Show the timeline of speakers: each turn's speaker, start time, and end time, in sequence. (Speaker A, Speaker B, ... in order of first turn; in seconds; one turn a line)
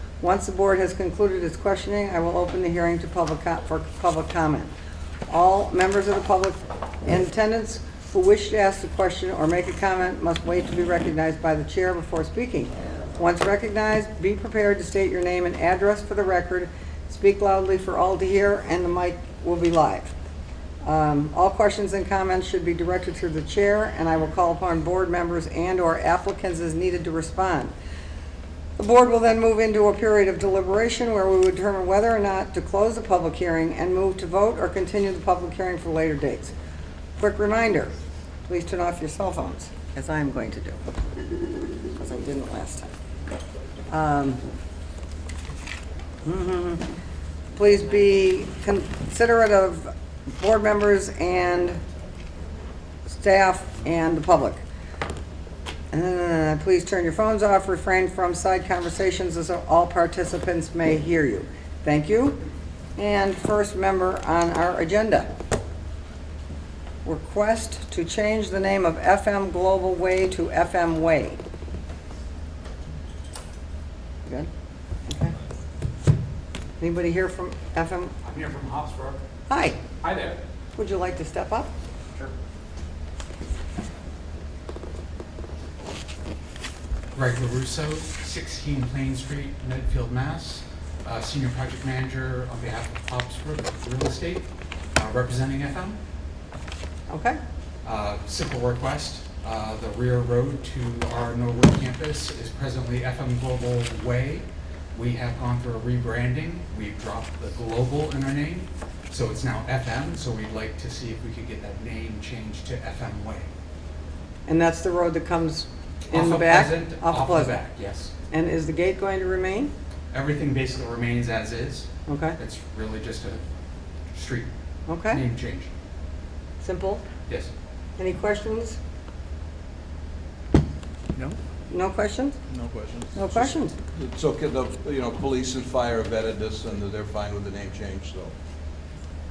Speaker A: 0.2-4.7
Speaker A: 5.3-20.1
Speaker A: 20.8-27.7
Speaker A: 28.8-36.5
Speaker A: 37.2-37.9
Speaker A: 38.5-40.8
Speaker A: 42.0-42.9
Speaker A: 43.9-44.4
Speaker A: 46.2-46.8
Speaker A: 47.5-51.8
Speaker A: 53.0-54.6
Speaker A: 55.9-62.4
Speaker A: 63.0-65.3
Speaker A: 67.0-71.4
Speaker A: 75.1-75.3
Speaker A: 76.8-78.1
Speaker B: 78.2-79.2
Speaker A: 79.5-79.8
Speaker B: 80.0-80.4
Speaker A: 80.8-81.7
Speaker B: 87.1-96.0
Speaker A: 97.1-97.4
Speaker B: 97.8-113.5
Speaker A: 114.5-117.6
Speaker B: 116.1-118.1
Speaker A: 118.3-119.7
Speaker B: 120.1-123.4
Speaker A: 122.1-122.4
Speaker B: 124.1-124.5
Speaker A: 124.9-125.2
Speaker B: 125.1-125.7
Speaker A: 126.6-127.0
Speaker A: 128.0-128.8
Speaker A: 131.7-132.4
Speaker C: 132.5-138.3
Speaker A: 133.1-133.7